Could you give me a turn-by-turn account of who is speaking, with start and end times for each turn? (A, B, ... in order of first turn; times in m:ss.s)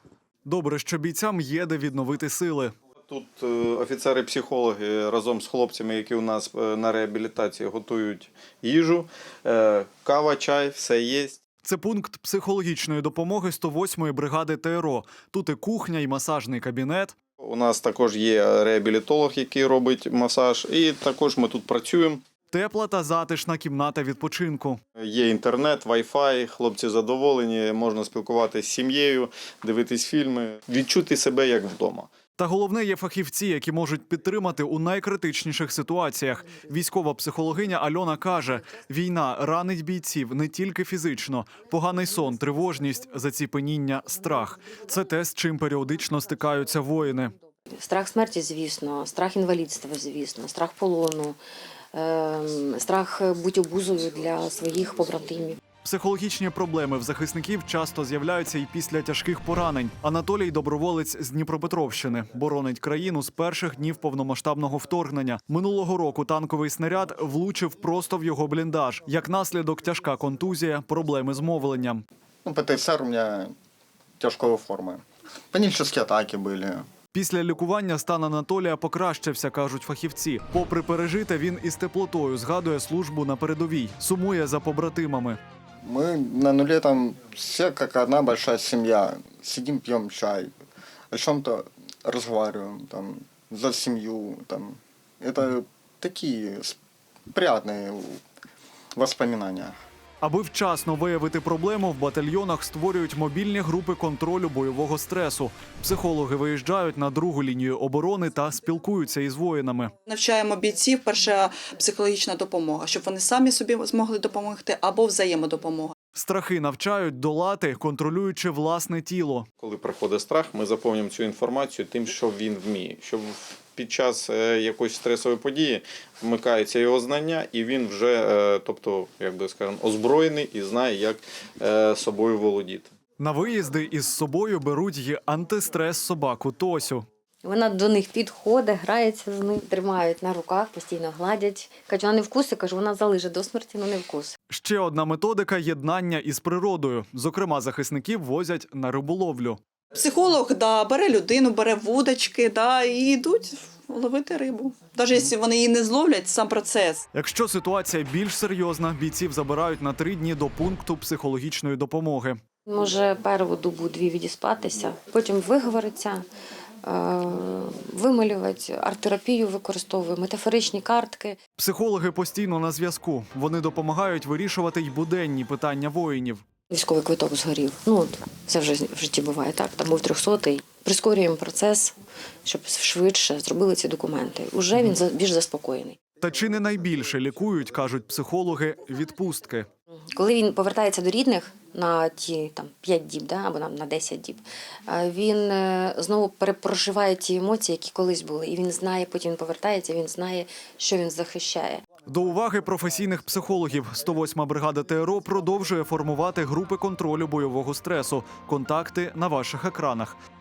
0:00.4-0:02.7 A
0:03.1-0:11.4 B
0:11.6-0:17.1 A
0:17.4-0:22.2 B
0:22.5-0:24.8 A
0:25.0-0:32.1 B
0:32.4-0:47.3 A
0:47.7-0:51.4 C
0:51.9-0:55.6 C
0:55.8-1:12.0 A
1:12.4-1:13.5 D
1:14.2-1:16.8 D
1:17.1-1:25.4 A
1:25.8-1:30.5 D
1:31.1-1:36.8 D
1:37.3-1:38.2 D
1:39.0-1:39.7 D
1:40.2-1:49.9 A
1:50.0-1:55.9 E
1:56.1-1:59.5 A
1:59.6-2:12.9 B
2:13.2-2:17.0 A
2:17.4-2:24.4 C
2:24.5-2:29.6 A
2:29.9-2:37.0 E
2:37.1-2:42.4 A
2:42.6-2:46.2 C
2:46.8-2:51.4 C
2:51.6-2:56.4 A
2:56.7-3:06.0 C
3:06.2-3:09.7 A
3:10.0-3:21.8 C
3:22.1-3:30.2 A